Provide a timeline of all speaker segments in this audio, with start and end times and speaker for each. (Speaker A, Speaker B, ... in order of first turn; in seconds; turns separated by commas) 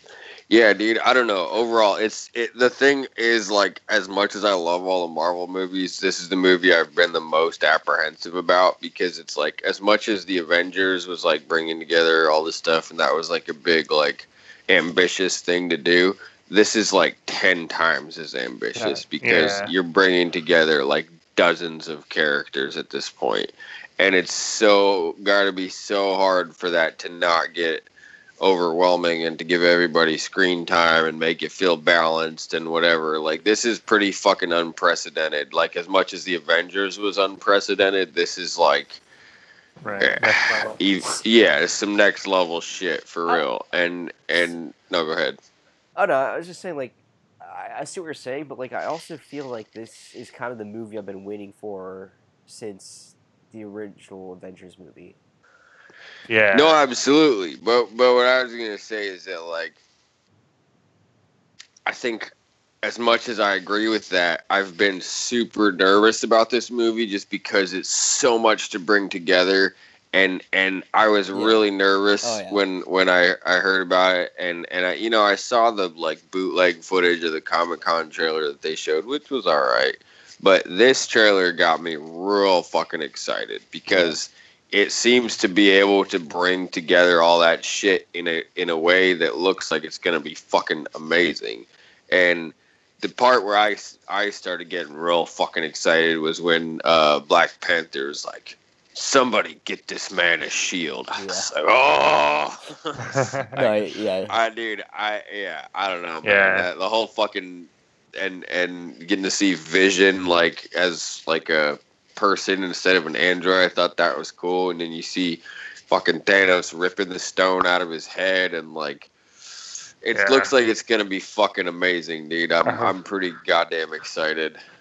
Speaker A: 0.5-27.9, Speaker B: 18.8-19.7, Speaker A: 28.4-39.0, Speaker B: 39.8-40.8, Speaker A: 40.0-45.4, Speaker C: 46.0-55.2, Speaker B: 56.3-56.8, Speaker A: 56.5-59.8, Speaker A: 61.9-62.3, Speaker A: 62.8-103.8, Speaker C: 71.3-71.6, Speaker C: 72.2-72.6, Speaker C: 83.9-84.2, Speaker C: 101.2-101.5, Speaker B: 103.0-103.4, Speaker C: 103.5-104.3, Speaker A: 104.3-119.1, Speaker B: 106.2-106.7, Speaker A: 120.0-124.6, Speaker B: 120.1-120.5, Speaker B: 122.6-122.9